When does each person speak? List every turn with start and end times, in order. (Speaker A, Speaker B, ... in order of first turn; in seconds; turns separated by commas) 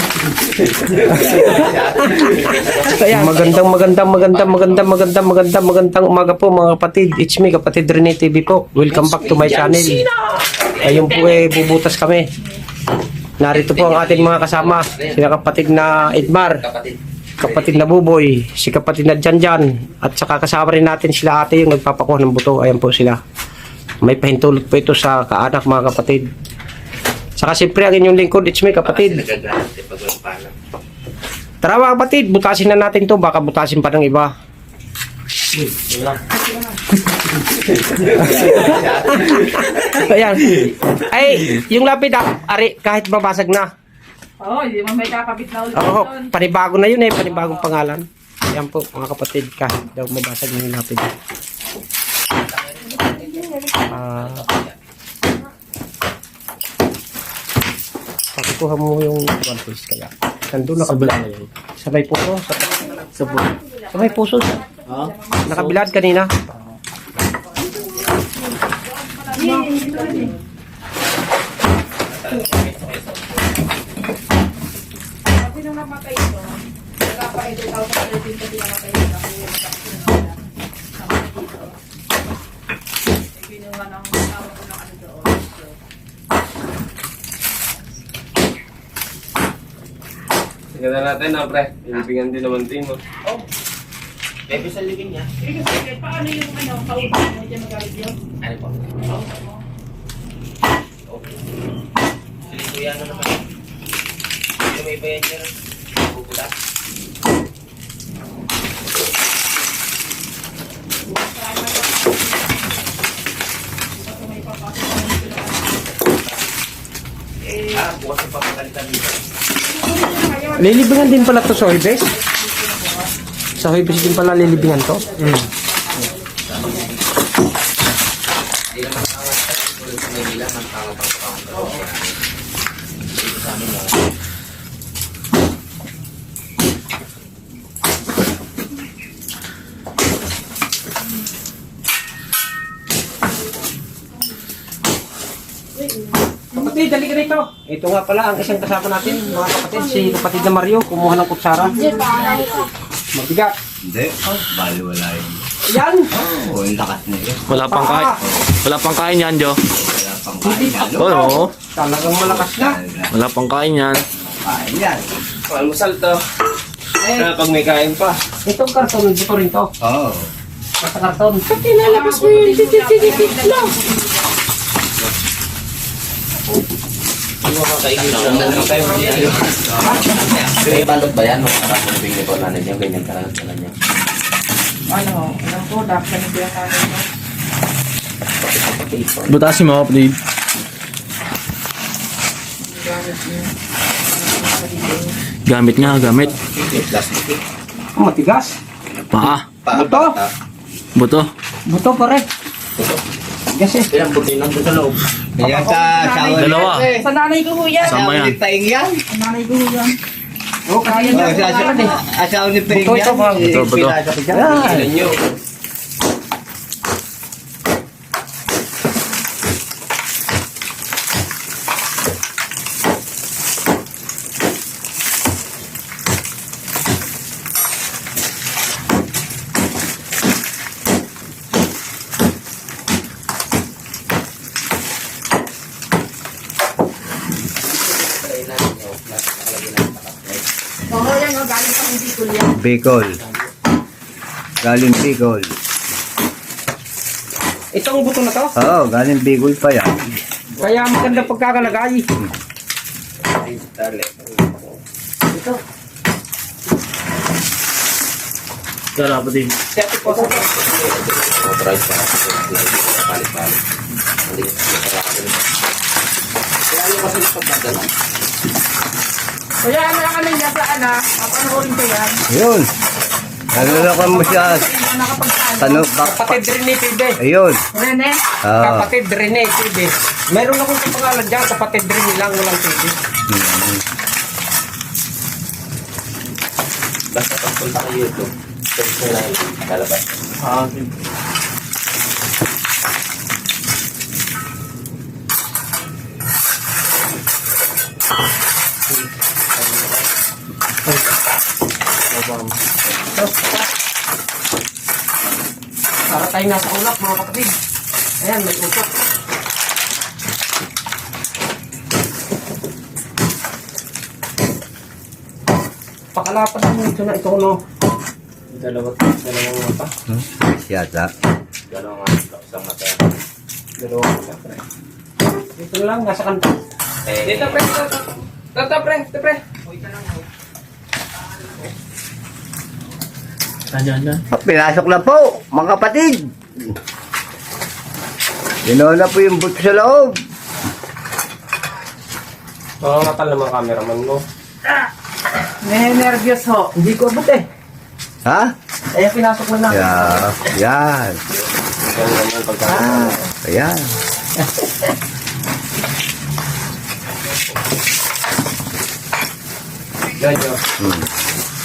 Speaker A: 0.9-5.0, Speaker B: 1.1-10.0, Speaker A: 8.9-11.5, Speaker B: 10.8-12.3, Speaker B: 13.4-16.6, Speaker A: 13.5-17.9, Speaker B: 17.4-23.2, Speaker B: 24.0-26.3, Speaker B: 27.4-29.2, Speaker A: 28.8-30.5, Speaker B: 31.6-34.3, Speaker C: 35.7-36.1, Speaker B: 38.0-43.7, Speaker A: 38.0-40.0, Speaker D: 44.4-46.3, Speaker B: 45.7-51.1, Speaker A: 52.5-54.8, Speaker D: 53.0-53.4, Speaker B: 53.9-54.4, Speaker B: 58.4-61.2, Speaker C: 60.8-61.5, Speaker B: 61.8-63.1, Speaker D: 62.9-65.5, Speaker C: 63.2-63.5, Speaker B: 63.9-64.7, Speaker C: 64.9-65.8, Speaker B: 65.5-66.3, Speaker D: 67.6-68.0, Speaker D: 68.7-70.4, Speaker A: 72.0-73.6, Speaker D: 75.3-81.8, Speaker D: 83.3-85.7, Speaker E: 90.7-93.0, Speaker A: 94.5-95.3, Speaker D: 95.4-98.2, Speaker A: 98.4-99.0, Speaker D: 99.1-99.4, Speaker A: 102.5-103.4, Speaker A: 104.6-106.5, Speaker D: 111.1-112.7, Speaker D: 114.0-115.7, Speaker D: 117.5-117.9, Speaker A: 117.7-119.2, Speaker D: 119.6-123.1, Speaker B: 120.6-122.1, Speaker B: 123.6-125.5, Speaker D: 123.7-126.7, Speaker A: 126.4-127.0, Speaker A: 128.7-132.2, Speaker A: 133.2-134.0, Speaker B: 146.5-151.9, Speaker D: 149.4-150.2, Speaker D: 151.7-152.7, Speaker B: 153.2-153.6, Speaker F: 153.8-155.5, Speaker B: 155.6-156.1, Speaker F: 156.1-157.4, Speaker C: 157.5-159.6, Speaker B: 157.7-158.2, Speaker F: 159.7-161.2, Speaker B: 160.4-162.8, Speaker C: 160.9-161.5, Speaker F: 162.2-163.1, Speaker C: 163.1-164.0, Speaker F: 164.1-165.1, Speaker E: 165.5-166.2, Speaker B: 167.0-167.3, Speaker E: 167.2-168.2, Speaker B: 168.4-169.7, Speaker F: 169.8-170.3, Speaker B: 170.8-173.8, Speaker D: 171.8-174.3, Speaker E: 172.5-173.0, Speaker E: 177.4-179.5, Speaker A: 177.8-183.7, Speaker D: 184.9-187.1, Speaker A: 188.7-189.4, Speaker C: 189.3-190.2, Speaker D: 192.7-193.5, Speaker D: 194.1-195.1, Speaker C: 195.5-196.4, Speaker A: 196.5-197.3, Speaker B: 197.9-198.6, Speaker C: 199.1-199.5, Speaker F: 199.7-200.3, Speaker B: 199.7-200.2, Speaker C: 201.0-201.3, Speaker B: 201.7-202.3, Speaker B: 203.5-203.9, Speaker A: 203.9-205.0, Speaker F: 205.4-207.0, Speaker D: 205.4-208.0, Speaker C: 206.3-207.0, Speaker F: 207.8-209.0, Speaker C: 207.8-208.4, Speaker D: 209.1-210.0, Speaker B: 210.7-212.0, Speaker D: 210.8-212.0, Speaker F: 211.1-214.9, Speaker B: 212.7-213.6, Speaker C: 213.4-214.0, Speaker A: 214.4-215.2, Speaker A: 237.7-240.5, Speaker D: 240.9-242.5, Speaker F: 242.6-243.2, Speaker F: 244.6-245.6, Speaker B: 247.7-248.6, Speaker F: 248.6-250.2, Speaker B: 250.6-252.1, Speaker A: 250.7-251.3, Speaker A: 253.3-254.3, Speaker C: 259.0-259.6, Speaker B: 259.8-260.4, Speaker A: 260.0-263.6, Speaker A: 264.3-265.6, Speaker A: 266.7-267.9, Speaker D: 269.6-272.2, Speaker F: 272.3-272.7, Speaker F: 273.5-274.7, Speaker D: 273.6-275.8, Speaker F: 275.6-276.4, Speaker B: 275.8-277.2, Speaker F: 277.2-277.6, Speaker D: 277.7-278.2, Speaker F: 278.4-278.9, Speaker B: 278.6-282.9, Speaker F: 283.3-283.8, Speaker A: 287.1-290.1, Speaker C: 290.5-290.9, Speaker B: 303.1-303.6, Speaker B: 306.1-307.5, Speaker B: 308.2-308.9, Speaker B: 316.1-317.6, Speaker E: 318.6-318.9, Speaker B: 319.1-319.8, Speaker F: 320.1-321.1, Speaker A: 321.7-323.1, Speaker B: 323.8-324.3, Speaker B: 325.6-326.6, Speaker A: 327.1-327.7, Speaker B: 327.3-328.0, Speaker B: 328.6-329.4, Speaker C: 333.7-334.2, Speaker F: 334.3-336.7, Speaker F: 338.6-340.2, Speaker E: 342.8-344.2, Speaker D: 345.6-346.6, Speaker B: 346.5-347.4, Speaker F: 348.2-348.5, Speaker B: 348.9-350.2, Speaker F: 349.7-351.2, Speaker E: 351.9-353.2, Speaker B: 352.7-353.2, Speaker F: 353.4-353.9, Speaker E: 360.2-360.6, Speaker F: 360.8-361.1